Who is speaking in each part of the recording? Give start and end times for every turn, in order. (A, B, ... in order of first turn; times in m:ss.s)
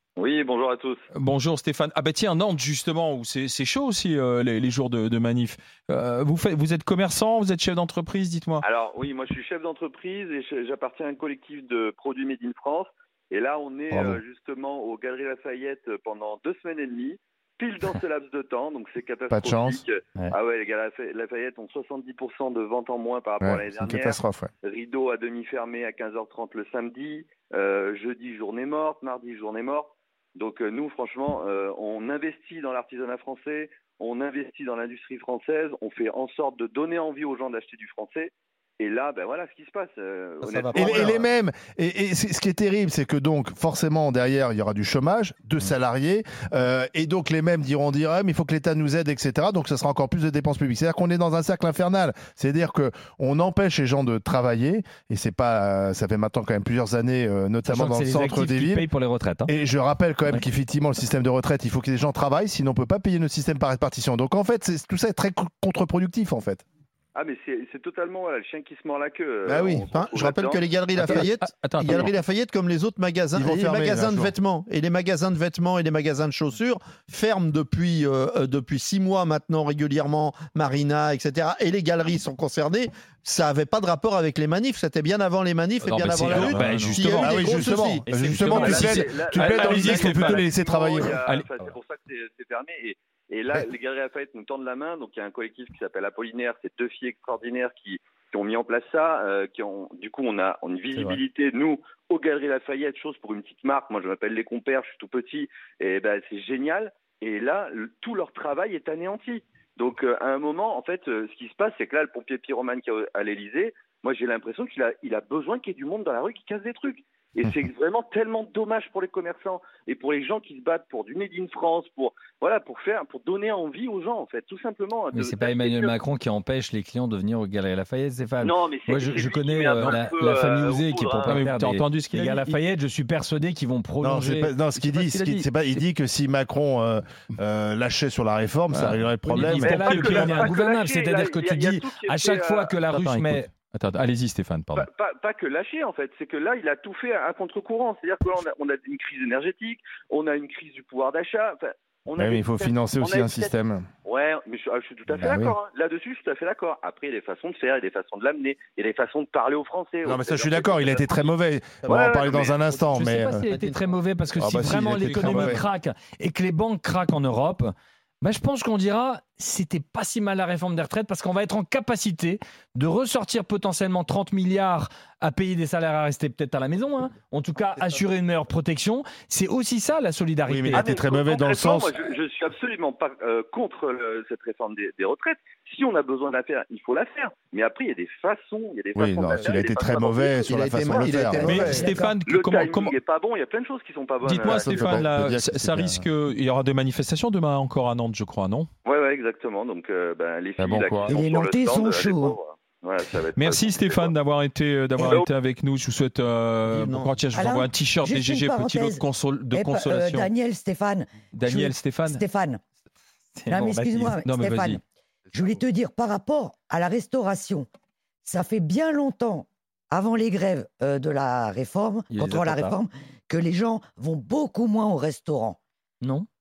0:00.2-0:01.0 A
0:01.1-0:08.6 B
0:08.6-0:41.2 A
0:13.9-0:14.2 C
0:19.3-0:19.8 C
0:23.4-0:24.5 C
0:40.4-0:41.3 D
0:40.7-0:58.9 C
0:57.7-0:59.5 E
0:59.5-1:06.6 C
1:07.2-1:10.7 A
1:09.5-1:28.1 D
1:11.0-1:12.1 B
1:13.3-1:14.3 C
1:25.8-1:30.4 B
1:26.1-1:31.2 C
1:28.1-1:29.0 E
1:28.5-2:06.0 A
1:31.2-1:31.6 B
2:05.1-2:14.6 E
2:08.4-2:11.4 A
2:11.2-2:12.4 B
2:14.0-2:20.1 C
2:14.8-2:15.7 B
2:18.7-2:20.4 B
2:19.3-2:23.5 E
2:19.6-2:22.8 A
2:22.9-2:24.9 B
2:24.7-2:41.3 A
2:32.2-2:33.9 C
2:35.1-2:35.6 C
2:40.0-2:43.5 C
2:41.9-2:42.8 A
2:42.9-3:00.9 E
2:43.5-2:43.9 D
2:44.4-2:45.6 C
2:44.8-2:45.7 B
3:00.5-3:02.1 C
3:00.7-3:11.2 A
3:09.0-3:11.6 C
3:10.5-3:11.9 D
3:11.4-3:13.0 B
3:11.5-3:12.1 F
3:12.2-3:15.0 A
3:14.2-3:18.7 B
3:14.3-3:16.0 C
3:18.8-3:24.2 A
3:20.6-3:21.2 B
3:21.1-3:22.4 F
3:23.3-3:30.3 B
3:25.0-3:25.3 A
3:26.7-3:27.2 D
3:27.3-3:32.6 F
3:31.4-3:32.2 B
3:33.4-3:34.2 E
3:33.5-3:34.8 F
3:34.2-3:34.8 B
3:35.3-3:37.7 F
3:38.2-3:45.6 F
3:42.1-3:42.8 E
3:46.0-3:46.3 E